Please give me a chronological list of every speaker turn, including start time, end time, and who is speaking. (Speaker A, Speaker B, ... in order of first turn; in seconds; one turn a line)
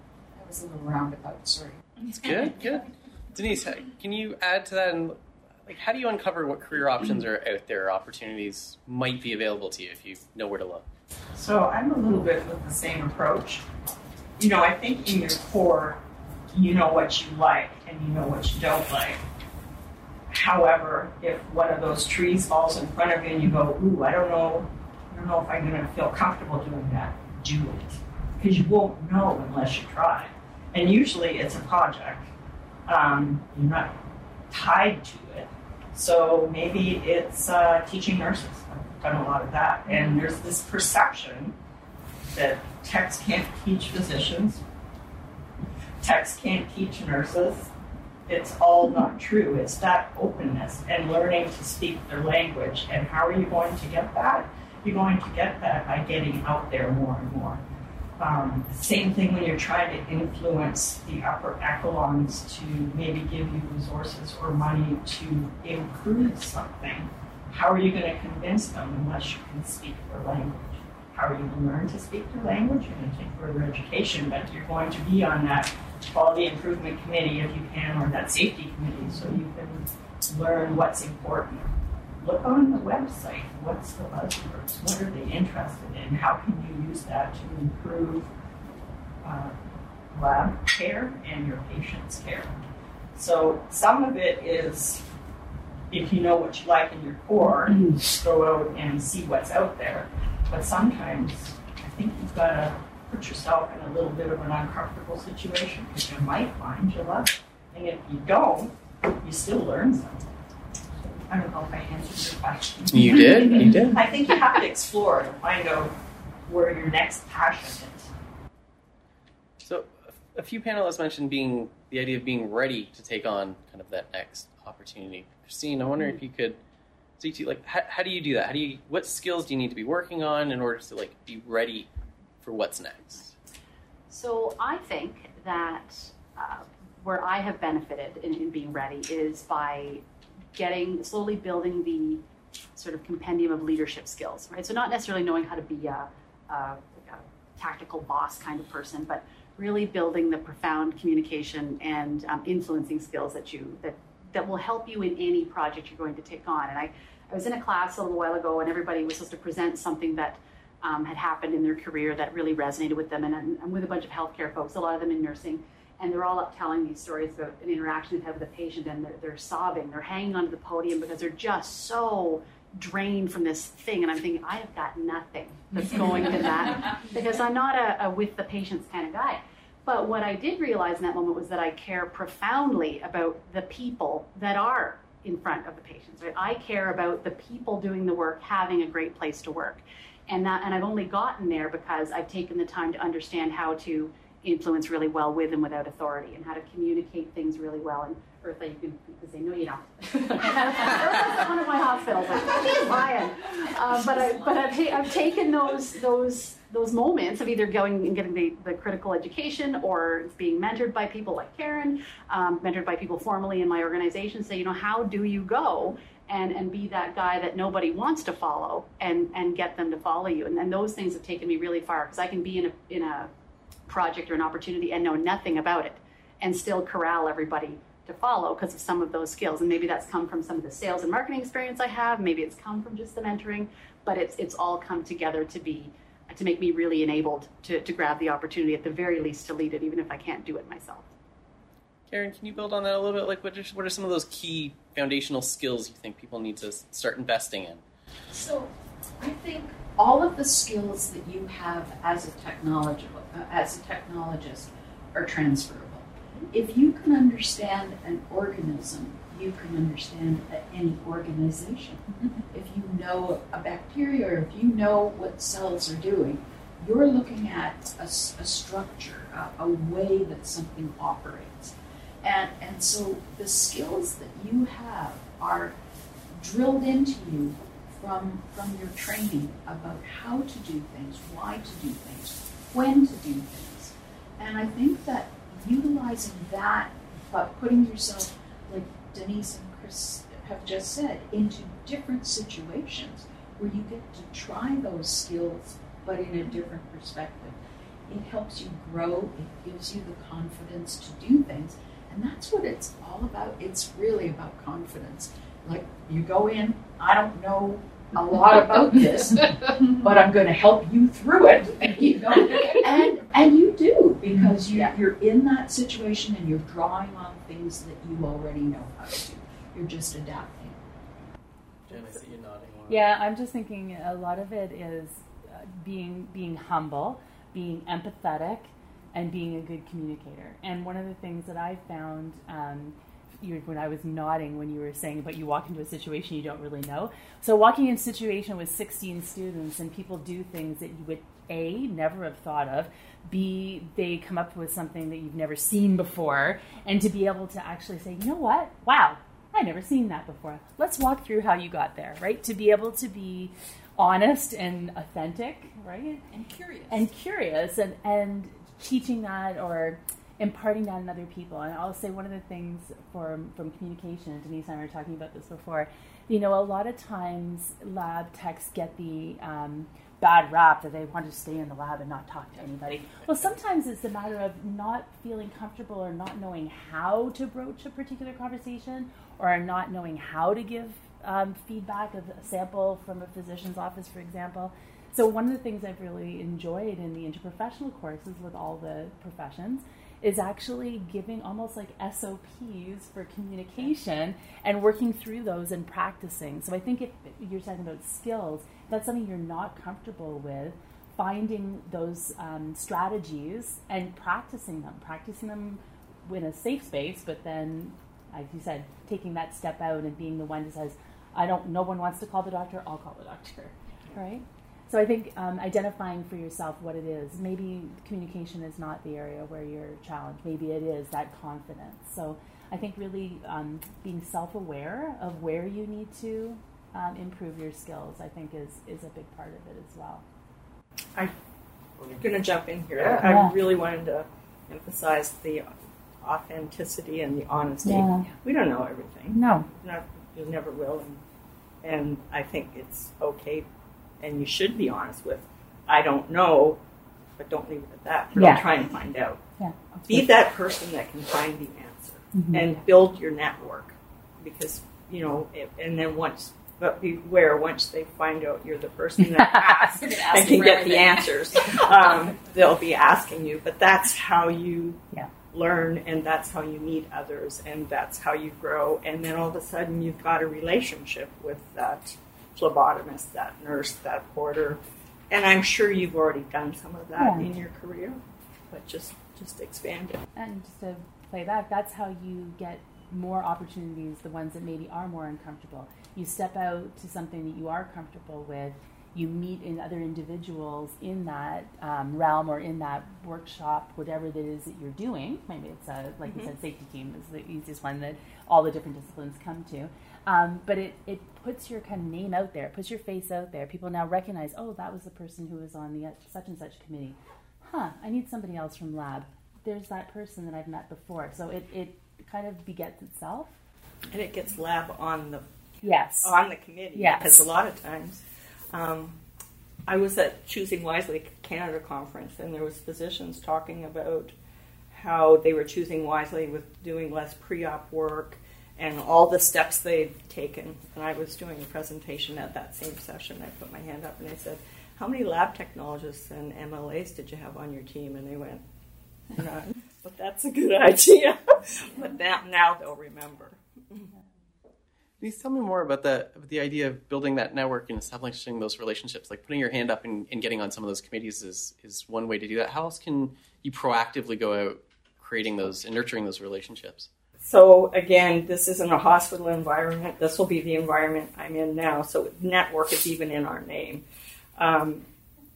Speaker A: 0.3-1.8
Speaker B: 2.1-10.8
Speaker C: 11.3-13.6
Speaker C: 14.4-16.0
Speaker C: 16.5-19.2
Speaker C: 20.3-32.2
Speaker C: 32.9-34.0
Speaker C: 34.5-41.5
Speaker C: 42.3-44.6
Speaker C: 46.0-47.7
Speaker C: 48.3-57.6
Speaker C: 58.2-88.3
Speaker C: 89.2-89.6
Speaker C: 90.1-92.5
Speaker C: 93.1-95.0
Speaker C: 95.9-110.3
Speaker C: 111.2-115.9
Speaker B: 112.9-114.0
Speaker C: 116.5-118.1
Speaker B: 119.6-126.6
Speaker B: 127.2-131.9
Speaker B: 132.4-133.3
Speaker D: 134.1-140.0
Speaker D: 140.6-142.2
Speaker D: 142.8-223.3
Speaker D: 223.9-241.1
Speaker B: 242.1-247.8
Speaker A: 248.3-275.7
Speaker A: 276.3-320.8
Speaker E: 321.9-322.2
Speaker B: 321.9-323.0
Speaker E: 322.9-356.2
Speaker A: 356.3-357.1
Speaker E: 356.9-430.2
Speaker C: 432.0-435.7
Speaker E: 433.2-433.5
Speaker C: 436.2-441.2
Speaker E: 437.8-438.3
Speaker E: 439.3-439.7
Speaker C: 441.8-443.7
Speaker C: 444.2-446.8
Speaker C: 447.4-449.4
Speaker E: 448.4-448.6
Speaker E: 449.6-450.2
Speaker C: 450.1-480.2
Speaker E: 452.3-452.7
Speaker E: 459.4-460.2
Speaker D: 460.4-460.8
Speaker E: 477.2-477.4
Speaker E: 480.4-513.5
Speaker C: 514.1-515.5
Speaker E: 515.8-516.3
Speaker C: 516.2-519.2
Speaker E: 516.9-517.5
Speaker C: 519.9-524.3
Speaker C: 524.9-538.6
Speaker C: 539.3-544.1
Speaker B: 545.2-557.1
Speaker C: 557.4-564.0
Speaker C: 564.6-565.0